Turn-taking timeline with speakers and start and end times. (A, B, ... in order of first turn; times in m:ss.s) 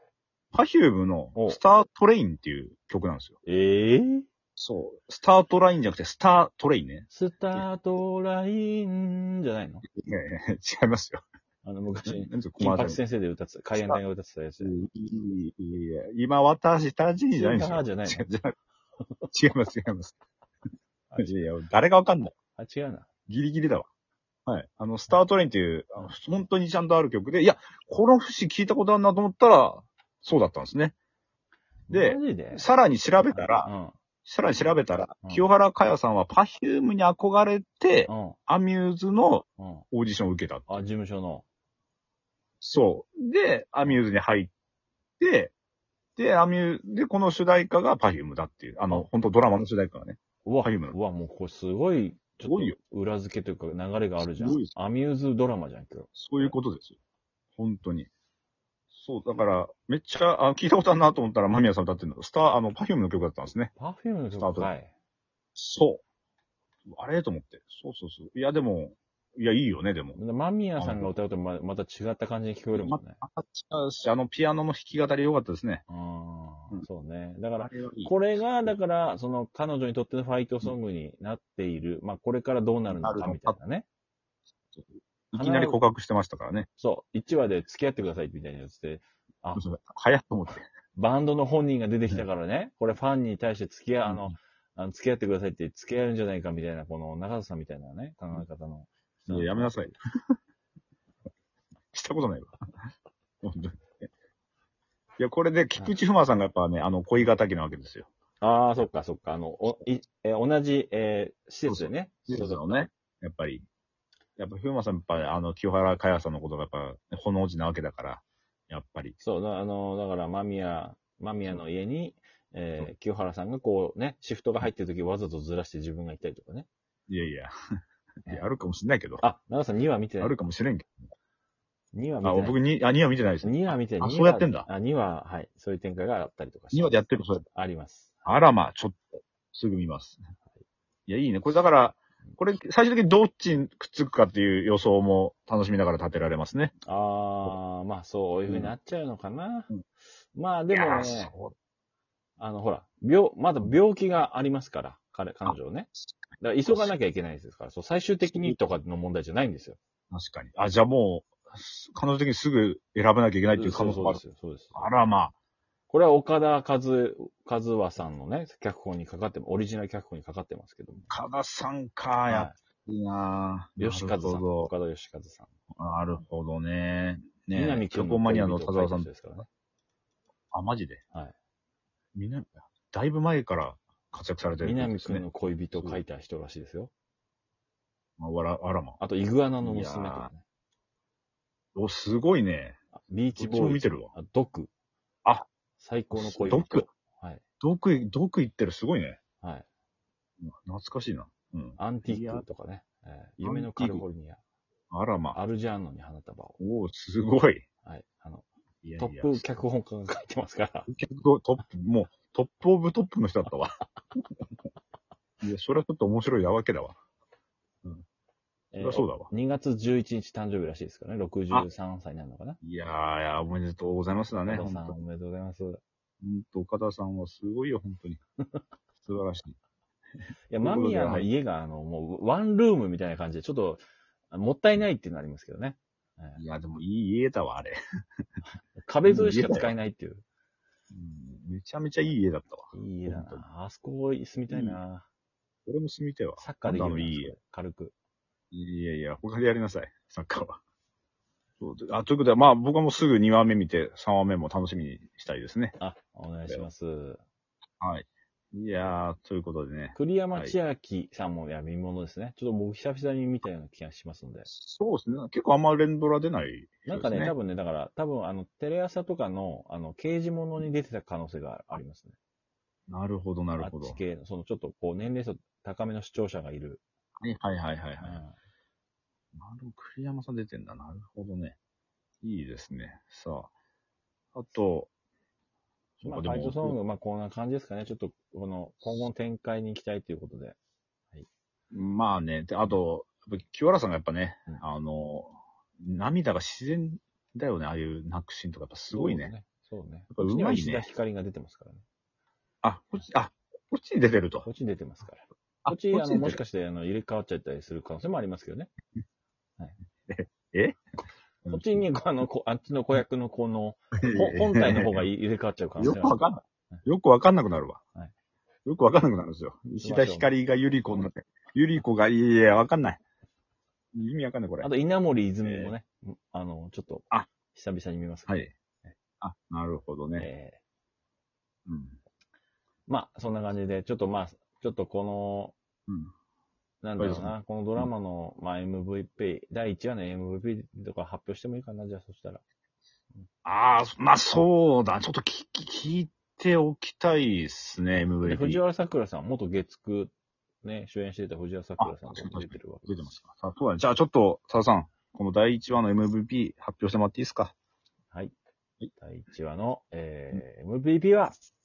0:00.5-0:03.4 A
0:03.4-0:04.2 B
0:04.6-0:07.7 A
0:07.1-0:09.8 B
0:09.9-0:11.2 A
0:11.6-0:14.8 B
0:12.0-0:13.0 A
0:14.6-0:18.5 A
0:17.3-0:18.2 B
0:19.0-0:19.3 B
0:19.3-0:20.1 A
0:21.1-0:21.5 B
0:21.2-0:22.4 A
0:22.6-0:23.1 B
0:23.3-0:23.9 A
0:24.5-0:30.9 A
0:31.9-0:32.7 B
0:31.9-0:33.7 A
0:33.2-0:34.0 B
0:34.2-0:40.8 A
0:38.1-0:38.4 B
0:39.6-0:39.8 B
0:40.7-0:41.4 B
0:42.6-0:44.5 A
0:45.2-0:45.5 A
0:46.2-0:51.0 A
0:50.4-0:56.6 B
0:52.4-0:52.8 A
0:54.2-0:54.7 A
0:56.1-0:57.0 A
0:57.5-0:58.1 A
0:58.9-1:03.7 A
1:03.8-1:04.9 B
1:04.3-1:04.7 A
1:05.6-1:06.0 A
1:06.9-1:10.2 A
1:10.1-1:13.2 B
1:10.8-1:11.2 A
1:12.7-1:15.8 A
1:15.9-1:23.8 B
1:17.6-1:18.7 A
1:22.9-1:23.6 A
1:24.7-1:26.7 A
1:25.4-1:25.8 B
1:26.8-1:29.6 B
1:29.6-1:30.7 A
1:30.9-1:39.8 B
1:34.0-1:34.4 A
1:39.3-1:39.9 A
1:41.9-1:42.5 A
1:43.4-1:44.1 A
1:45.2-1:48.1 A
1:48.4-1:52.9 B
1:51.6-1:53.6 A
1:54.4-1:59.2 A
1:59.2-2:06.7 B
2:07.1-2:07.5 A
2:08.2-2:09.2 A
2:09.2-2:10.4 B
2:10.2-2:11.0 A
2:11.9-2:12.6 B
2:12.2-2:14.7 A
2:13.4-2:17.0 B
2:16.7-2:17.4 A
2:17.5-2:18.3 B
2:18.2-2:20.2 A
2:21.1-2:26.7 A
2:26.8-2:29.8 B
2:28.5-2:28.7 A
2:30.3-2:31.3 B
2:30.7-2:31.5 A
2:32.4-2:39.8 B
2:35.4-2:36.2 A
2:36.7-2:36.9 A
2:38.2-2:38.7 A
2:40.1-2:44.2 A
2:43.6-2:44.9 B
2:44.7-2:45.3 A
2:45.9-2:51.1 B
2:51.1-2:54.7 A
2:52.3-2:52.5 B
2:53.8-2:55.5 B
2:55.7-2:59.1 A
2:57.5-2:59.5 B
3:00.5-3:01.0 A
3:02.1-3:06.0 A
3:04.6-3:06.9 B
3:08.2-3:09.0 A
3:09.0-3:10.4 B
3:09.6-3:10.3 A
3:11.7-3:12.8 A
3:13.0-3:14.7 B
3:13.3-3:14.1 A
3:15.8-3:17.4 B
3:16.1-3:16.9 A
3:17.6-3:19.2 A
3:20.4-3:22.4 A
3:21.8-3:24.4 B
3:23.4-3:24.0 A
3:24.9-3:25.4 A
3:25.3-3:26.6 B
3:26.6-3:27.6 A
3:27.8-3:28.4 B
3:28.8-3:29.6 A
3:29.0-3:30.9 B
3:30.9-3:34.2 A
3:35.4-3:37.0 A
3:38.7-3:42.6 B
3:38.8-3:39.3 A
3:42.6-3:45.0 A
3:44.4-3:45.8 B
3:46.2-3:48.2 A
3:49.0-3:49.5 A
3:50.5-3:56.4 B
3:50.6-3:51.3 A
3:56.4-3:57.8 A
3:58.8-4:00.2 B
3:59.0-3:59.7 A
4:00.9-4:03.4 A
4:02.7-4:05.0 B
4:04.5-4:04.8 A
4:05.6-4:07.3 A
4:06.4-4:07.9 B
4:08.5-4:10.6 A
4:11.6-4:15.8 A
4:15.8-4:17.2 B
4:17.8-4:20.6 A
4:19.9-4:24.5 B
4:24.5-4:27.3 A
4:26.8-4:32.1 B
4:32.9-4:34.0 A
4:33.6-4:36.8 B
4:37.2-4:38.2 A
4:38.0-4:38.3 B
4:39.3-4:41.6 A
4:42.2-4:43.5 A
4:44.3-4:44.9 A
4:46.0-4:46.8 A
4:46.0-4:50.6 B
4:51.7-4:59.3 A
4:58.9-5:01.8 B
5:00.1-5:00.8 A
5:02.6-5:04.5 A
5:04.4-5:08.7 B
5:05.6-5:06.4 A
5:10.1-5:10.8 A
5:11.4-5:11.9 A
5:11.5-5:16.2 B
5:14.0-5:15.0 A
5:15.8-5:17.8 A
5:18.6-5:23.0 A
5:19.7-5:20.3 B
5:23.9-5:24.7 A
5:24.6-5:28.9 B
5:25.4-5:25.7 A
5:29.2-5:30.3 A
5:30.2-5:30.6 B
5:31.7-5:32.0 A
5:32.9-5:35.5 B
5:36.8-5:42.4 B
5:37.0-5:37.9 A
5:43.4-5:48.6 A
5:48.2-5:53.1 B
5:51.8-5:57.5 A
5:59.0-6:01.3 B